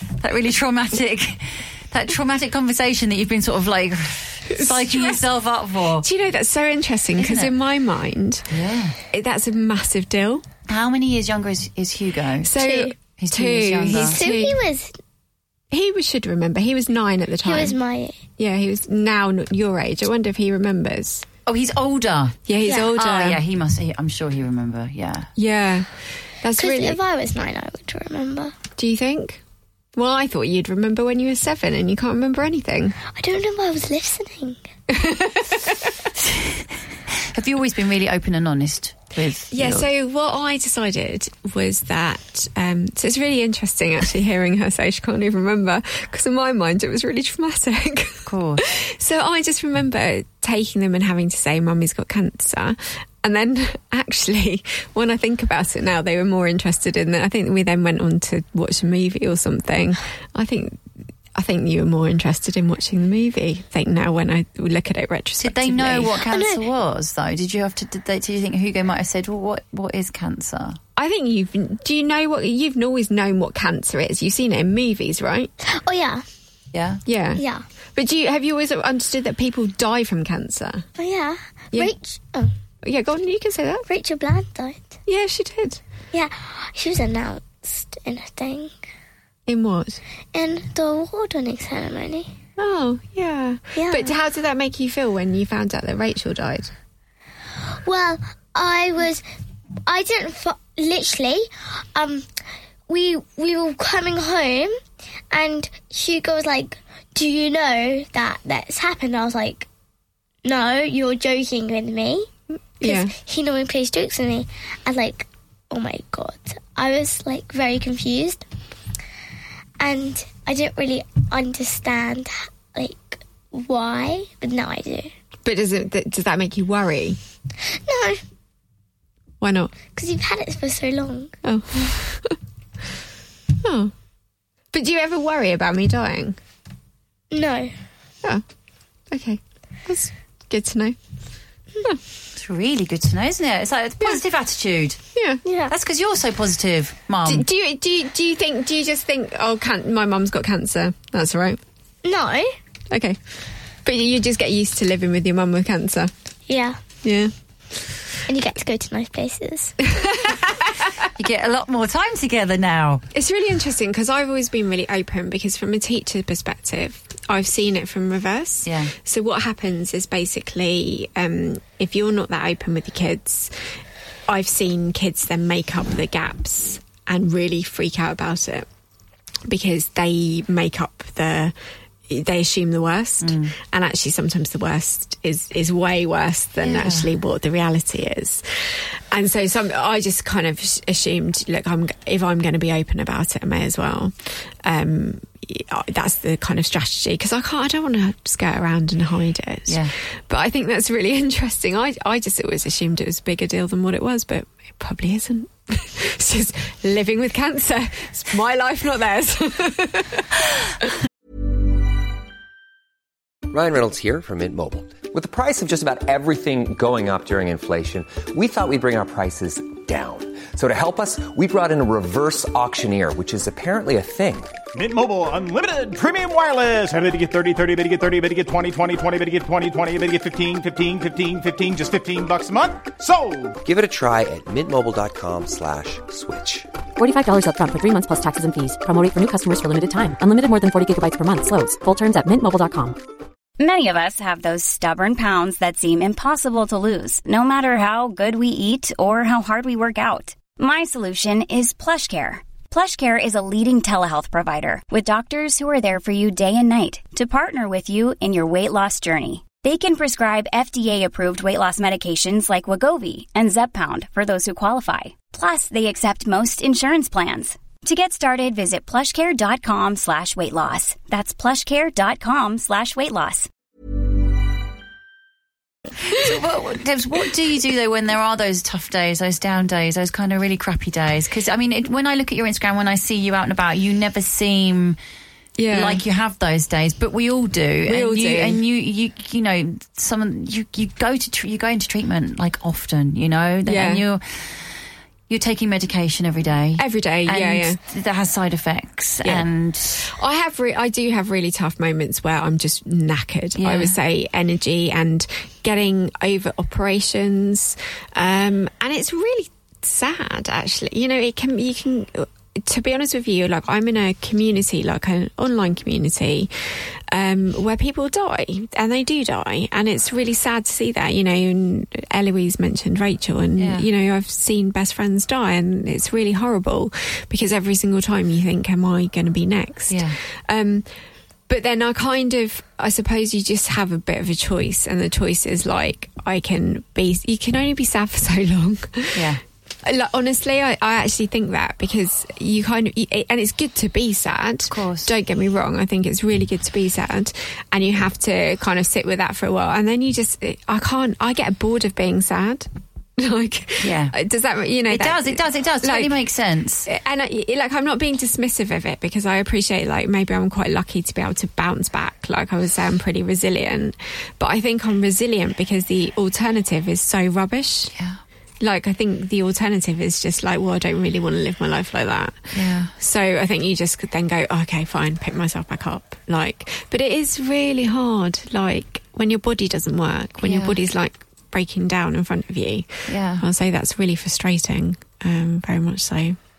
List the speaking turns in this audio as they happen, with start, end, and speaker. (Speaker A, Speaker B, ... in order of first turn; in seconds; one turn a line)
Speaker A: 0.2-6.1
Speaker B: 4.5-5.2
Speaker B: 6.0-8.5
Speaker A: 7.2-7.5
Speaker A: 8.5-9.0
Speaker B: 9.1-10.4
Speaker A: 10.7-12.6
Speaker B: 12.4-14.6
Speaker C: 12.6-12.9
Speaker A: 13.2-14.2
Speaker C: 13.9-14.9
Speaker B: 15.7-17.8
Speaker C: 17.4-18.2
Speaker B: 18.4-21.2
Speaker A: 21.5-22.4
Speaker B: 22.5-23.4
Speaker C: 22.6-22.9
Speaker A: 22.9-25.3
Speaker B: 25.4-25.9
Speaker B: 26.4-27.0
Speaker C: 26.6-28.6
Speaker B: 28.8-29.4
Speaker B: 30.0-33.0
Speaker C: 33.1-34.6
Speaker B: 34.9-35.9
Speaker A: 36.2-36.6
Speaker A: 37.3-39.9
Speaker B: 39.5-60.8
Speaker A: 48.3-48.6
Speaker B: 61.3-66.2
Speaker A: 65.4-70.8
Speaker C: 66.3-66.6
Speaker B: 71.0-75.5
Speaker C: 75.6-76.2
Speaker A: 76.7-77.0
Speaker B: 77.1-77.4
Speaker C: 77.4-77.6
Speaker B: 78.0-80.9
Speaker C: 81.0-82.5
Speaker B: 82.8-83.9
Speaker C: 83.9-84.9
Speaker B: 85.1-85.8
Speaker C: 86.1-88.7
Speaker B: 89.5-90.0
Speaker C: 90.3-92.3
Speaker B: 92.6-96.7
Speaker C: 93.8-94.1
Speaker C: 97.8-99.2
Speaker C: 99.9-102.3
Speaker C: 102.9-104.7
Speaker C: 105.3-109.7
Speaker C: 110.4-112.3
Speaker B: 112.8-113.1
Speaker C: 112.8-118.5
Speaker C: 119.8-125.1
Speaker B: 125.5-127.2
Speaker C: 127.7-128.2
Speaker B: 129.4-129.8
Speaker C: 129.9-131.3
Speaker B: 131.4-132.4
Speaker B: 133.6-133.9
Speaker B: 134.7-136.4
Speaker C: 137.3-137.7
Speaker B: 139.1-141.0
Speaker A: 142.4-145.0
Speaker B: 145.1-145.4
Speaker C: 145.4-145.7
Speaker A: 145.7-147.5
Speaker B: 147.3-151.6
Speaker C: 152.0-152.5
Speaker B: 152.9-153.2
Speaker B: 153.8-156.1
Speaker C: 156.5-156.8
Speaker B: 157.0-157.3
Speaker C: 158.3-159.8
Speaker B: 159.9-160.7
Speaker A: 161.2-163.0
Speaker B: 163.1-173.5
Speaker A: 168.6-168.9
Speaker B: 174.3-178.7
Speaker B: 179.5-181.6
Speaker B: 182.1-210.3
Speaker A: 183.2-183.5
Speaker A: 186.6-187.1
Speaker A: 199.7-199.9
Speaker D: 213.5-224.6
Speaker E: 224.7-233.6
Speaker D: 233.6-236.7
Speaker F: 237.0-243.0
Speaker G: 243.6-273.5
Speaker A: 276.1-285.0
Speaker B: 285.6-286.0
Speaker A: 285.7-294.6
Speaker B: 287.9-288.6
Speaker B: 293.6-294.0
Speaker A: 295.3-300.0
Speaker B: 296.8-297.8
Speaker B: 299.2-330.9
Speaker A: 303.6-303.9
Speaker A: 323.6-323.9
Speaker A: 329.9-330.2
Speaker B: 331.5-339.2
Speaker A: 339.1-339.4
Speaker B: 339.8-356.1
Speaker A: 344.7-345.1
Speaker A: 353.8-354.1
Speaker A: 354.9-356.9
Speaker B: 356.9-367.9
Speaker A: 367.9-368.2
Speaker B: 368.6-386.4
Speaker A: 372.5-372.9
Speaker A: 380.4-380.8
Speaker A: 383.1-383.4